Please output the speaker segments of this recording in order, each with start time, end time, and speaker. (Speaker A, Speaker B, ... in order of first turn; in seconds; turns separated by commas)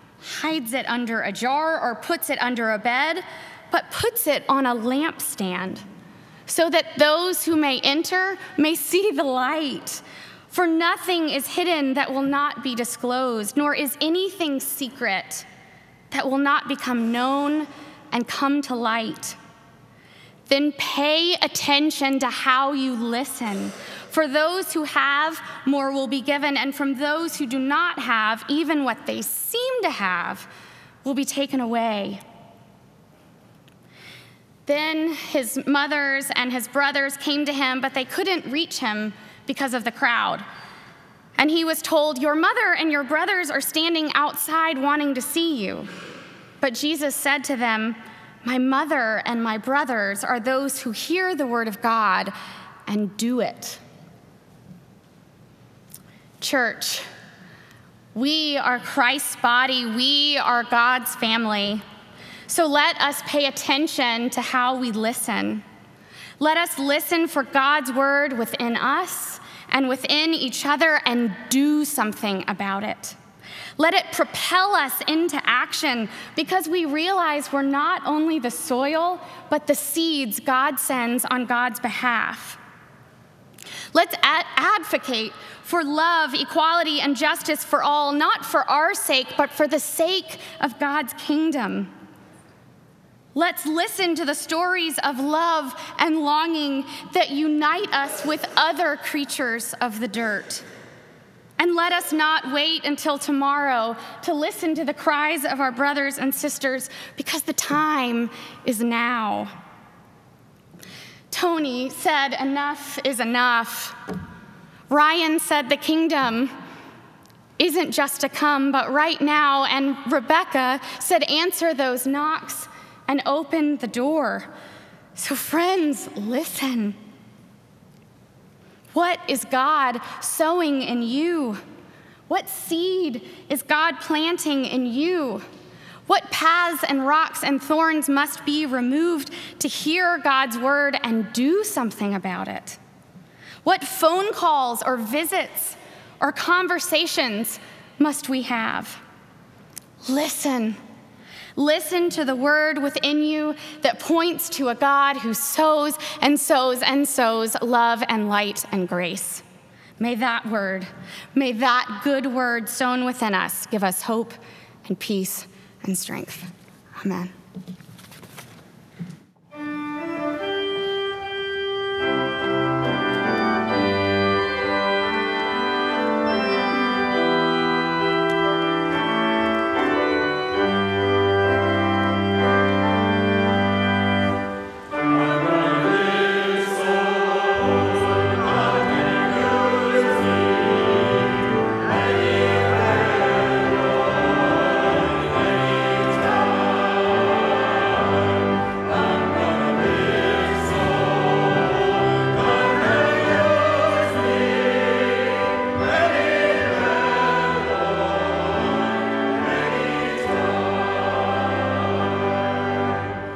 Speaker A: 0.2-5.8, Speaker A: 6.5-15.5, Speaker A: 16.1-19.4, Speaker A: 20.5-30.5, Speaker A: 31.0-32.2, Speaker A: 34.7-40.4, Speaker A: 41.4-45.9, Speaker A: 46.6-52.3, Speaker A: 52.9-53.8, Speaker A: 56.4-57.1, Speaker A: 58.1-61.8, Speaker A: 62.5-65.6, Speaker A: 66.4-73.2, Speaker A: 73.8-82.6, Speaker A: 83.9-91.9, Speaker A: 93.3-100.7, Speaker A: 101.6-109.5, Speaker A: 111.3-114.0, Speaker A: 114.9-116.5, Speaker A: 117.6-124.5, Speaker A: 125.2-127.0, Speaker A: 128.9-131.6, Speaker A: 132.3-135.4, Speaker A: 136.1-142.8, Speaker A: 143.6-149.0, Speaker A: 150.1-150.8, Speaker A: 151.6-159.4, Speaker A: 160.0-167.3